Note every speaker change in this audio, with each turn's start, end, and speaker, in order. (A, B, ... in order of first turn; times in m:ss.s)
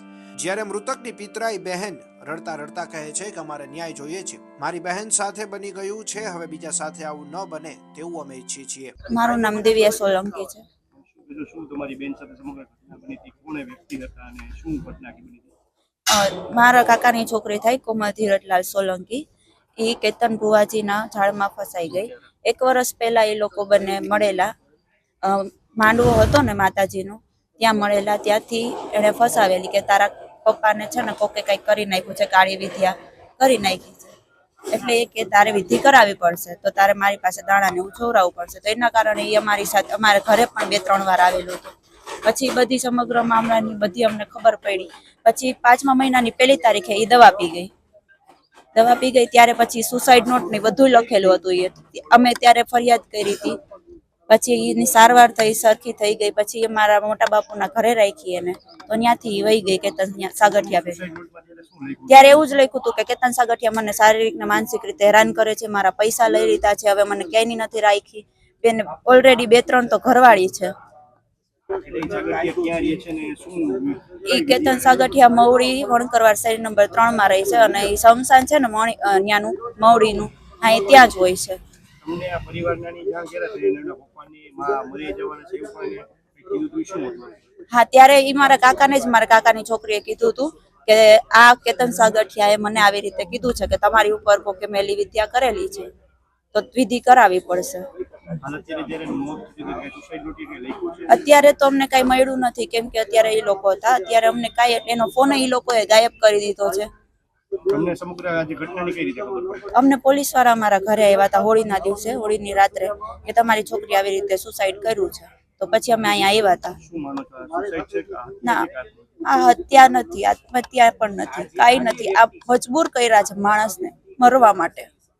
0:00.4-0:08.9 A
0:09.1-0:10.6 B
0:11.1-0:15.5 C
0:16.1-0:19.2 B
0:19.8-0:24.5 B
0:25.2-0:34.2 B
0:34.7-0:41.7 B
0:42.2-0:47.7 B
0:48.8-0:53.6 B
0:54.3-1:01.0 B
1:00.6-1:02.4 C
1:02.1-1:10.7 B
1:11.8-1:15.0 C
1:14.3-1:21.6 B
1:22.0-1:27.4 C
1:27.7-1:35.9 B
1:36.5-1:37.8 B
1:38.4-1:41.3 C
1:41.1-1:46.9 B
1:47.7-1:49.7 C
1:49.7-1:56.8 B
1:56.8-1:58.9 C
1:58.4-1:58.7 B
1:59.2-2:04.9 B